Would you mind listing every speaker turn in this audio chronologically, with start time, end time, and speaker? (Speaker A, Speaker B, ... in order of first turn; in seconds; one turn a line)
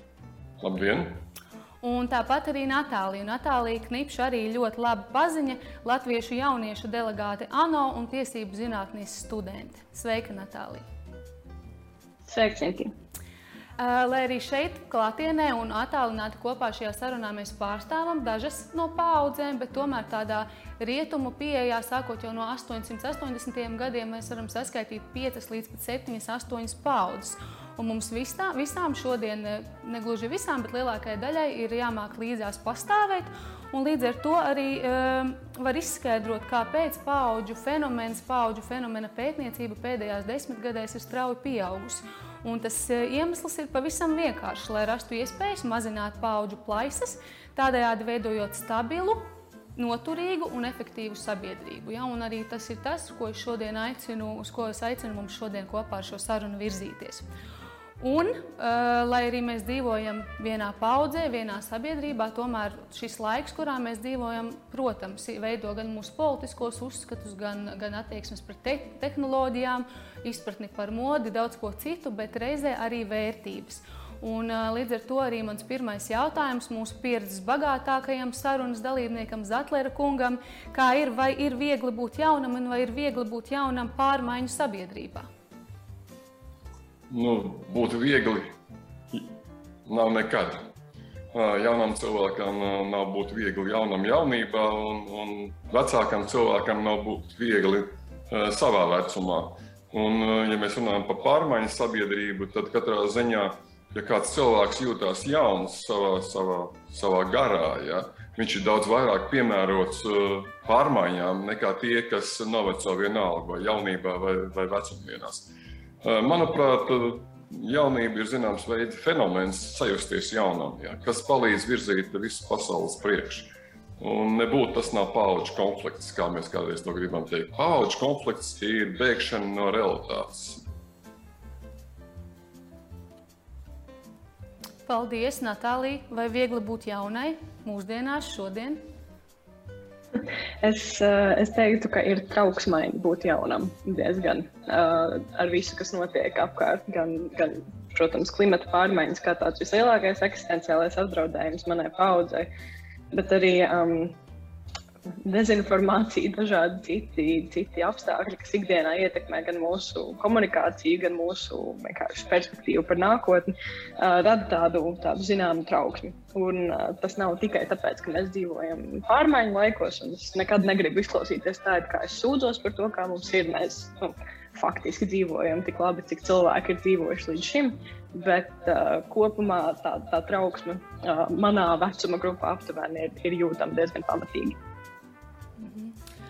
Speaker A: 0.6-1.2
Speaker B: 1.8-10.8
Speaker C: 12.3-12.9
Speaker B: 13.8-57.2
Speaker B: 58.0-85.3
Speaker A: 87.1-88.5
Speaker A: 89.8-90.7
Speaker A: 91.3-130.6
Speaker B: 134.8-138.8
Speaker C: 140.2-152.5
Speaker C: 153.1-154.2
Speaker C: 155.2-184.6
Speaker B: 185.6-185.9